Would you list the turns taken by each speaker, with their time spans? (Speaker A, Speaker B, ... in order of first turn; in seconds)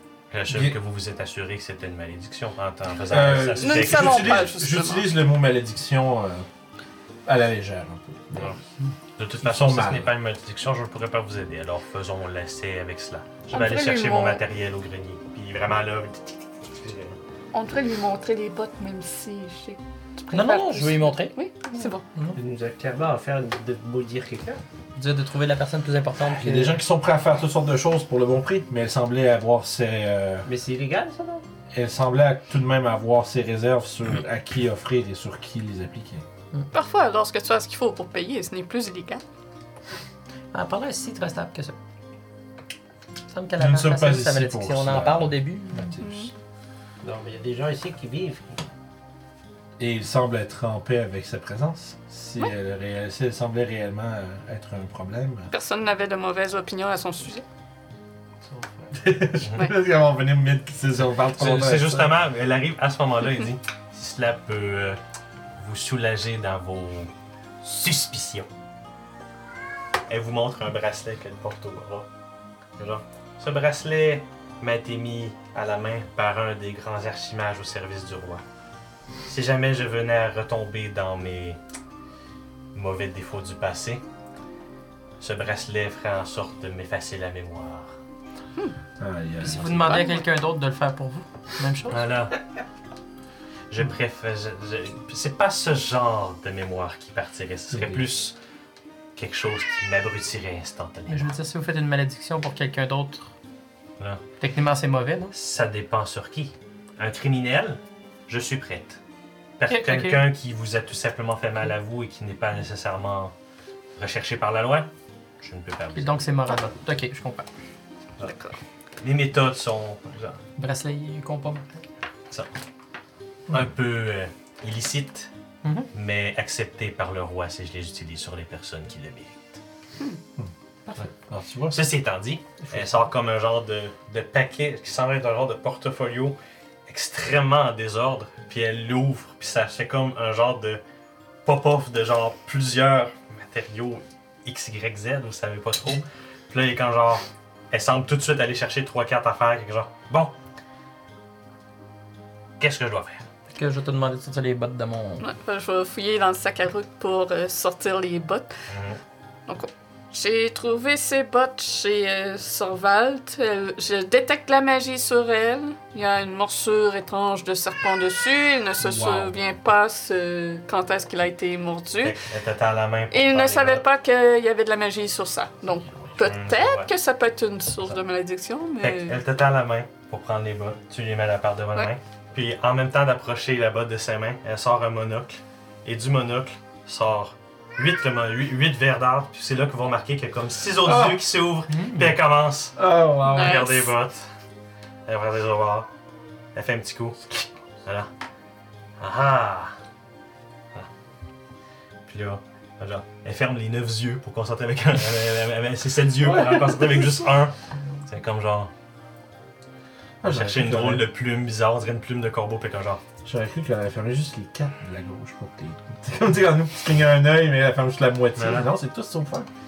Speaker A: 0.3-4.5, 9.2-17.2, 59.4-59.7, 61.4-65.0, 65.6-67.1, 67.6-68.5, 70.1-72.1, 72.8-78.4, 79.3-81.6, 82.7-84.0, 85.2-88.0, 91.9-92.4, 93.7-98.4, 99.2-101.3, 105.3-109.0, 109.6-113.3, 114.0-114.9, 115.4-116.3, 119.0-120.4, 123.5-125.3, 125.9-129.6, 131.7-140.8, 141.4-150.3, 152.6-153.3, 158.7-159.0, 172.0-173.8, 176.2-176.9, 178.8-194.3, 195.1-195.9, 196.6-197.2, 197.8-198.1, 199.0-199.8, 202.1-208.7, 210.2-213.0, 218.3-218.7
Speaker B: 0.5-0.8, 3.1-6.5, 7.3-8.6, 9.4-10.1, 26.2-30.5, 31.7-36.2, 43.6-46.3, 49.8-55.5, 59.0-62.1, 89.0-90.0, 97.7-98.1, 130.4-131.9, 168.8-169.3, 190.8-191.3, 192.8-193.6, 206.2-207.2, 210.2-211.1, 213.2-219.5
Speaker C: 3.6-5.1, 13.5-14.4, 17.5-22.0, 36.7-39.2, 46.0-46.3, 55.5-57.4, 89.9-90.2, 118.2-118.6, 155.2-158.5, 159.5-172.2, 173.1-179.2, 193.3-193.9
Speaker D: 20.3-21.4, 25.0-26.8, 40.5-41.8, 43.3-45.9, 89.4-92.1, 101.1-103.3, 104.4-105.3, 109.7-110.3, 116.0-117.5, 120.6-121.8, 125.6-125.9, 153.5-155.2, 191.7-192.2
Speaker E: 22.4-24.6, 30.4-31.4, 47.0-48.6, 58.4-59.0